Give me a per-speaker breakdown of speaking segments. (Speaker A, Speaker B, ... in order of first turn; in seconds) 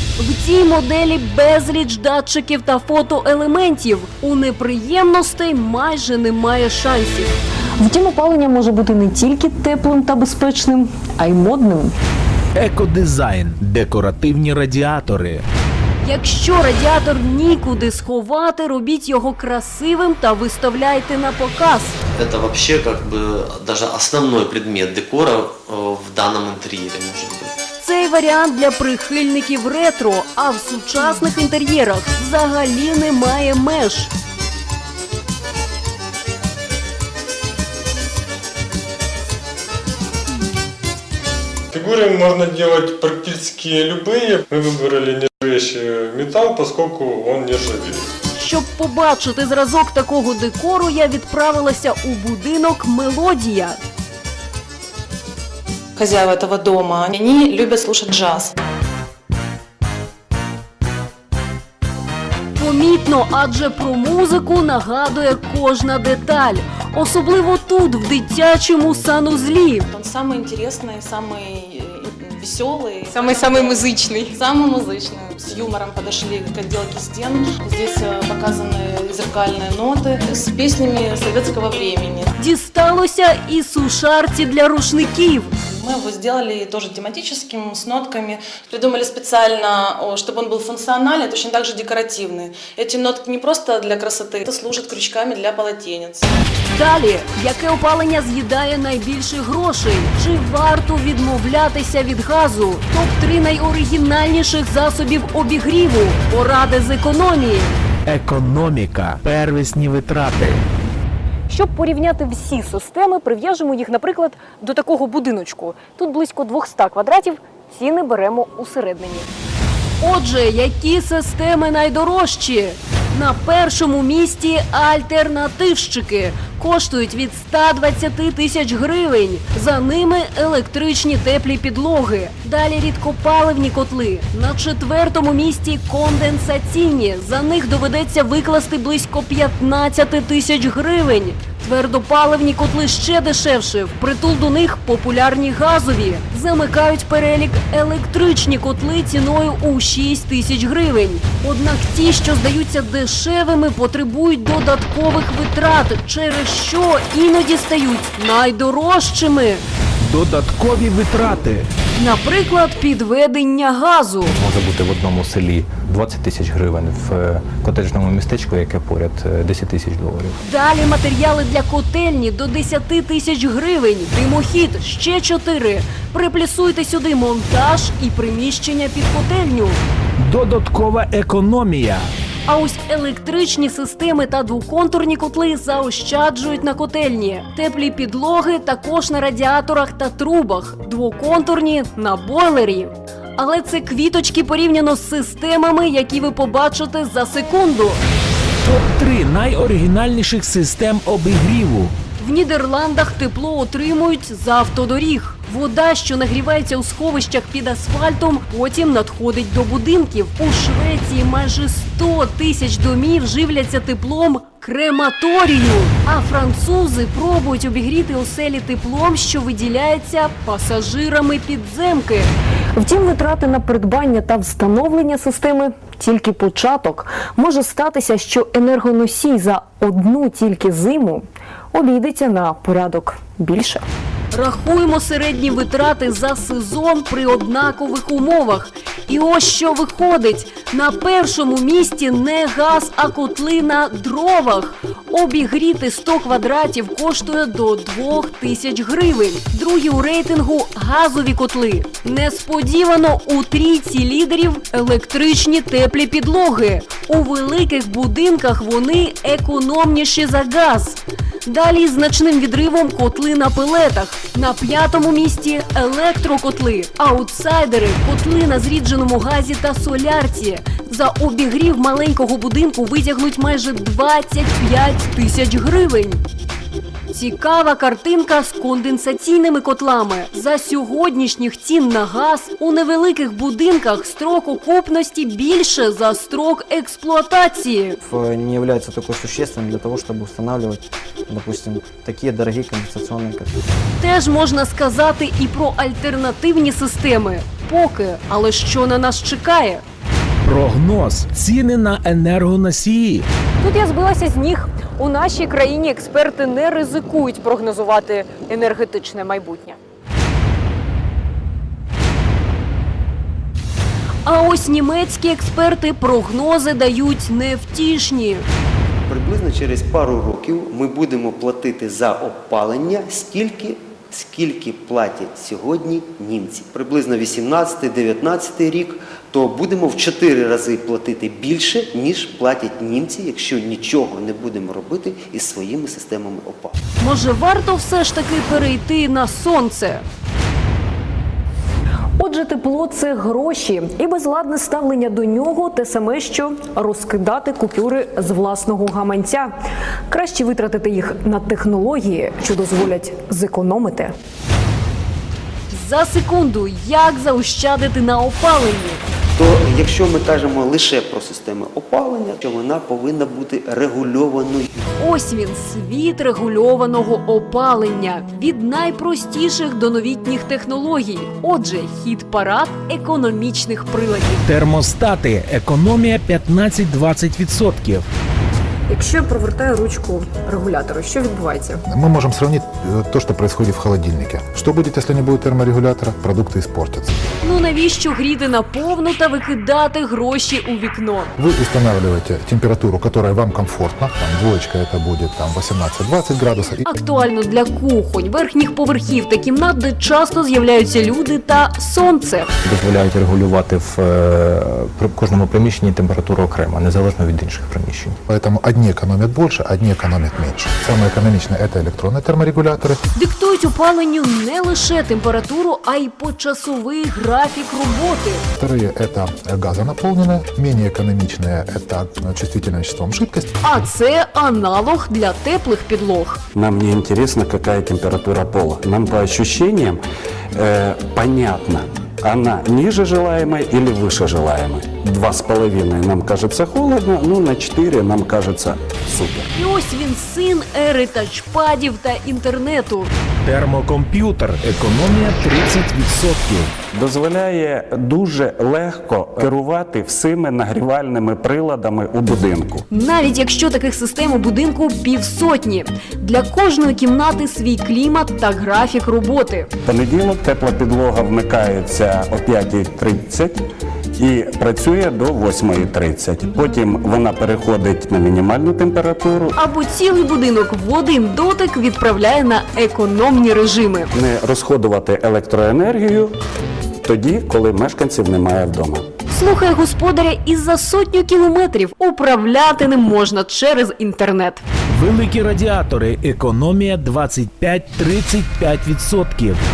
Speaker A: 0.2-7.3, 16.0-22.0, 27.8-34.1, 48.3-53.8, 62.6-69.9, 82.4-85.5, 96.7-107.8, 120.0-159.6, 162.0-164.3, 170.4-179.8, 182.5-198.0, 202.2-222.3, 234.3-276.2, 277.1-288.0, 294.0-299.8, 314.2-318.5, 337.0-340.0, 355.7-359.0, 365.0-374.4, 387.4-391.3, 396.9-402.5, 413.1-418.4, 423.6-426.4, 439.5-443.1, 452.9-459.7, 469.6-474.1, 479.3-484.6
Speaker B: 7.8-11.9, 73.1-74.3, 111.5-119.3, 222.8-233.8, 303.6-309.8, 342.2-349.5, 350.1-354.1, 378.9-381.8
Speaker C: 12.5-15.4, 108.0-110.6, 160.0-161.7, 180.2-182.1, 198.6-201.9, 300.4-303.3, 374.4-378.1, 443.4-446.8, 484.9-489.6
Speaker D: 22.1-27.5
Speaker E: 41.7-48.0
Speaker F: 56.0-58.5, 69.9-82.3, 85.6-96.3
Speaker G: 164.3-170.4, 402.6-408.2
Speaker H: 288.0-293.6
Speaker I: 319.1-336.8, 359.4-364.9
Speaker J: 381.9-387.2, 391.4-396.8, 408.3-413.0, 418.6-423.5
Speaker K: 426.5-439.5, 446.9-452.9, 459.8-463.6, 464.1-469.5, 474.1-476.4, 477.0-479.1